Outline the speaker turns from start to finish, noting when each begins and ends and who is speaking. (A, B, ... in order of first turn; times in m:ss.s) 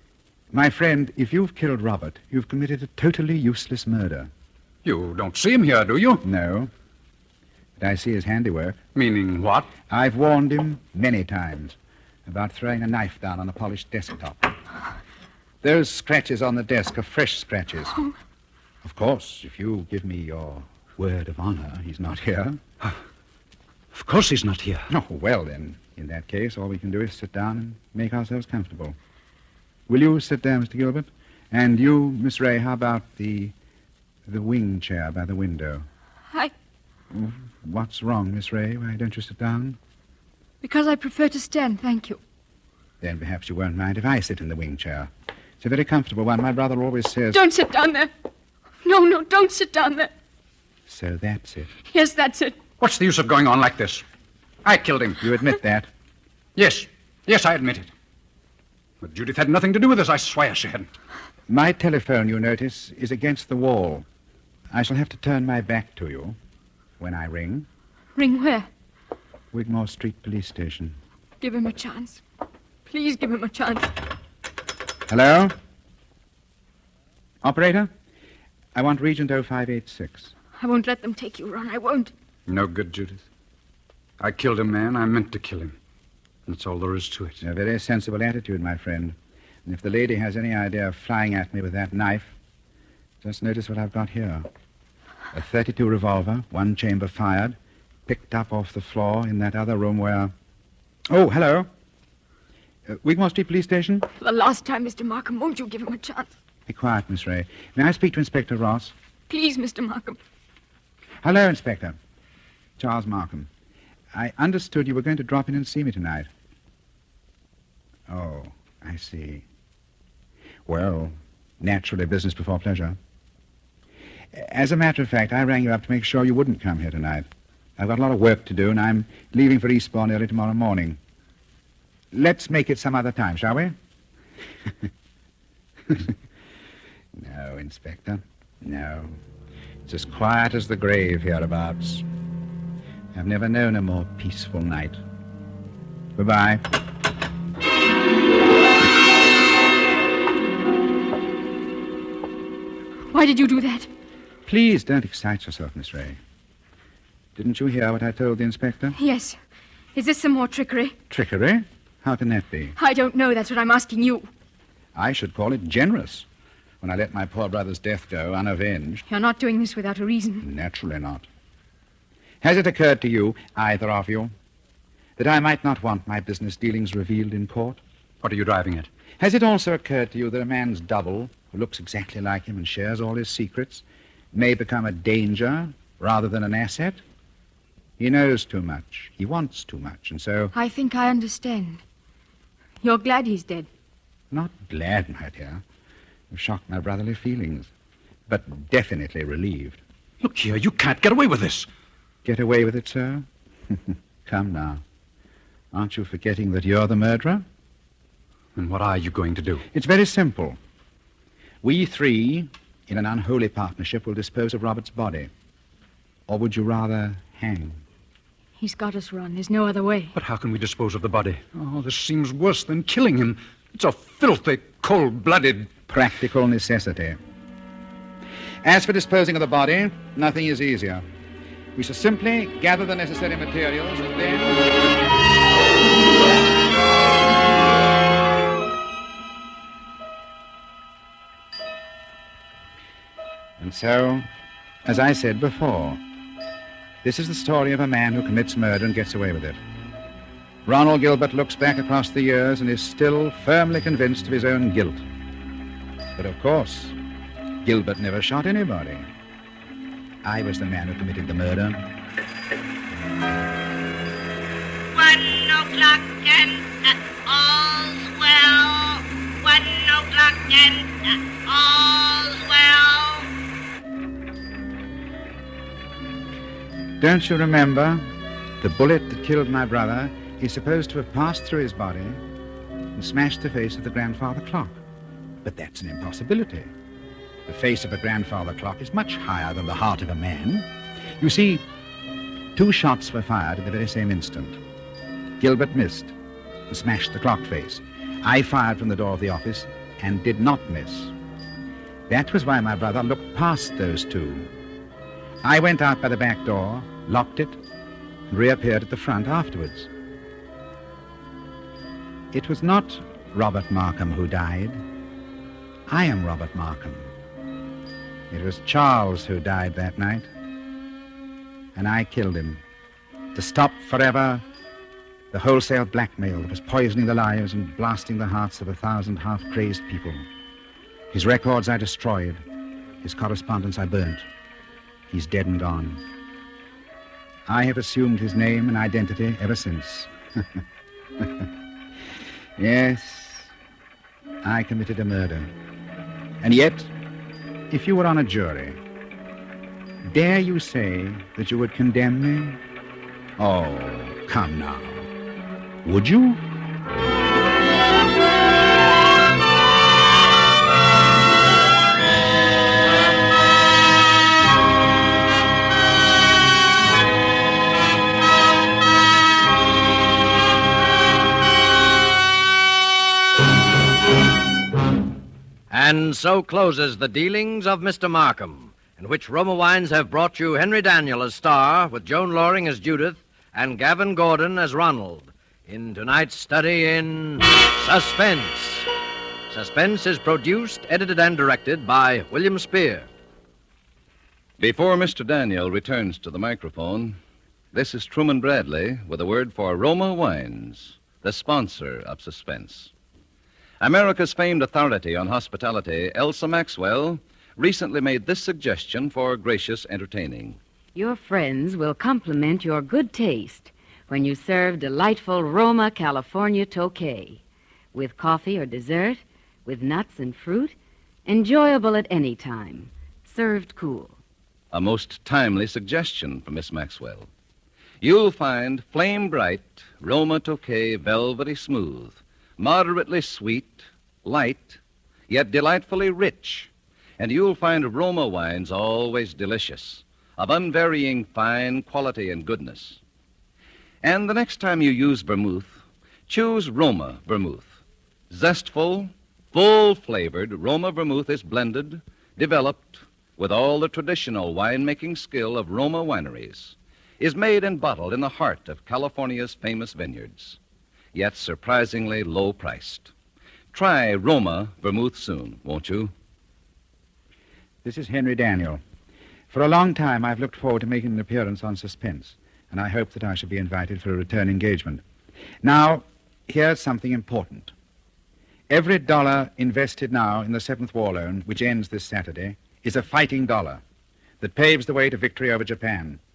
0:00.5-0:04.3 A
0:04.8-0:06.2 B
0:06.2-0:06.7 A
0:07.8-0:08.8 A
0:09.0-0:09.7 B
0:09.9-0:14.6 A
0:15.6-0:18.0 A
0:18.8-0:22.6 A
0:23.9-0:24.9 B
0:24.9-0:29.0 A
0:29.9-0:33.5 A
0:34.3-0:35.9 A
0:37.1-0:39.8 A
0:40.6-0:42.2 C
0:43.0-0:47.4 A
0:47.3-0:48.1 C
0:48.8-0:50.1 C
0:50.9-0:51.7 A
0:51.9-0:52.6 C
0:52.8-0:54.0 B
0:54.6-0:55.2 B
0:55.2-0:55.9 A
0:56.6-0:57.9 B
0:59.0-1:00.9 B
1:01.5-1:04.1 A
1:04.7-1:06.4 A
1:07.0-1:07.7 A
1:08.2-1:08.7 C
1:09.5-1:11.0 A
1:11.4-1:12.2 C
1:12.9-1:13.9 C
1:15.1-1:15.6 A
1:17.4-1:17.9 A
1:18.7-1:20.3 A
1:20.6-1:22.1 C
1:22.5-1:23.2 B
1:24.2-1:25.7 B
1:26.5-1:27.4 B
1:27.4-1:32.3 A
1:33.2-1:34.5 A
1:35.3-1:40.3 A
1:41.1-1:41.7 A
1:42.9-1:44.1 A
1:44.2-1:46.3 C
1:46.7-1:48.9 A
1:49.3-1:50.2 C
1:51.2-1:52.0 A
1:52.8-1:53.5 A
1:54.1-1:56.3 A
1:58.1-1:59.4 A
2:00.7-2:03.0 A
2:04.3-2:11.0 A
2:12.1-2:13.8 A
2:15.9-2:16.2 A
2:17.1-2:19.2 A
2:19.9-2:22.0 A
2:23.1-2:25.0 A
2:26.2-2:26.6 A
2:33.1-2:33.9 C
2:34.5-2:36.2 A
2:37.4-2:39.0 A
2:39.0-2:39.4 C
2:40.0-2:41.0 C
2:41.1-2:42.8 A
2:42.8-2:44.3 C
2:45.0-2:46.3 A
2:46.8-2:49.0 A
2:49.1-2:50.5 C
2:50.4-2:51.3 A
2:52.4-2:54.3 A
2:55.2-2:57.8 A
2:58.2-2:58.9 B
2:59.2-3:07.0 A
3:08.0-3:10.5 A
3:10.5-3:11.8 C
3:12.8-3:13.7 C
3:14.3-3:15.6 A
3:16.3-3:17.7 A
3:18.3-3:19.8 A
3:20.2-3:21.7 B
3:22.2-3:24.8 A
3:25.7-3:27.4 A
3:28.6-3:29.6 B
3:29.7-3:30.6 A
3:31.6-3:35.3 A
3:36.3-3:37.8 A
3:38.6-3:40.1 C
3:40.1-3:45.8 B
3:45.9-3:47.2 A
3:48.6-3:51.0 A
3:51.8-3:54.9 A
4:03.6-4:04.2 A
4:04.8-4:06.0 A
4:07.0-4:09.6 A
4:10.7-4:15.0 A
4:16.2-4:17.0 A
4:17.6-4:19.1 A
4:20.2-4:21.8 A
4:24.9-4:33.3 D
4:37.0-4:38.0 A
4:38.6-4:42.2 A
4:43.0-4:44.8 A
4:45.4-4:46.7 A
4:47.5-4:51.6 A
4:52.6-4:54.6 A
4:55.4-4:56.1 A
4:56.7-5:01.1 A
5:02.1-5:04.5 A
5:05.4-5:07.6 A
5:08.3-5:09.9 A
5:12.3-5:14.8 A
5:15.9-5:17.1 A
5:18.3-5:20.3 A
5:21.8-5:22.6 A
5:23.3-5:24.4 A
5:25.3-5:30.3 A
5:31.1-5:32.4 A
5:33.0-5:34.2 A
5:35.1-5:36.0 A
5:37.5-5:40.6 A
5:41.2-5:41.5 A
5:42.6-5:43.5 A
5:44.4-5:45.5 A
5:46.4-5:46.9 A
5:47.7-5:48.8 A
5:50.0-5:52.6 A
5:53.4-5:55.1 A
5:55.8-5:56.4 A
6:15.7-6:28.9 E
6:29.5-6:33.1 E
6:34.6-6:37.2 F
6:37.7-6:42.9 F
6:43.8-6:50.6 F
6:51.0-6:57.4 G
6:57.9-7:04.2 G
7:04.7-7:07.3 F
7:08.0-7:23.0 F
7:24.0-7:27.8 F
7:28.3-7:40.6 F
7:41.1-7:43.1 F
7:43.7-7:46.1 F
7:47.8-7:48.8 A
7:49.5-7:55.0 A
7:55.6-7:57.7 A
7:58.7-8:03.8 A
8:04.4-8:06.2 A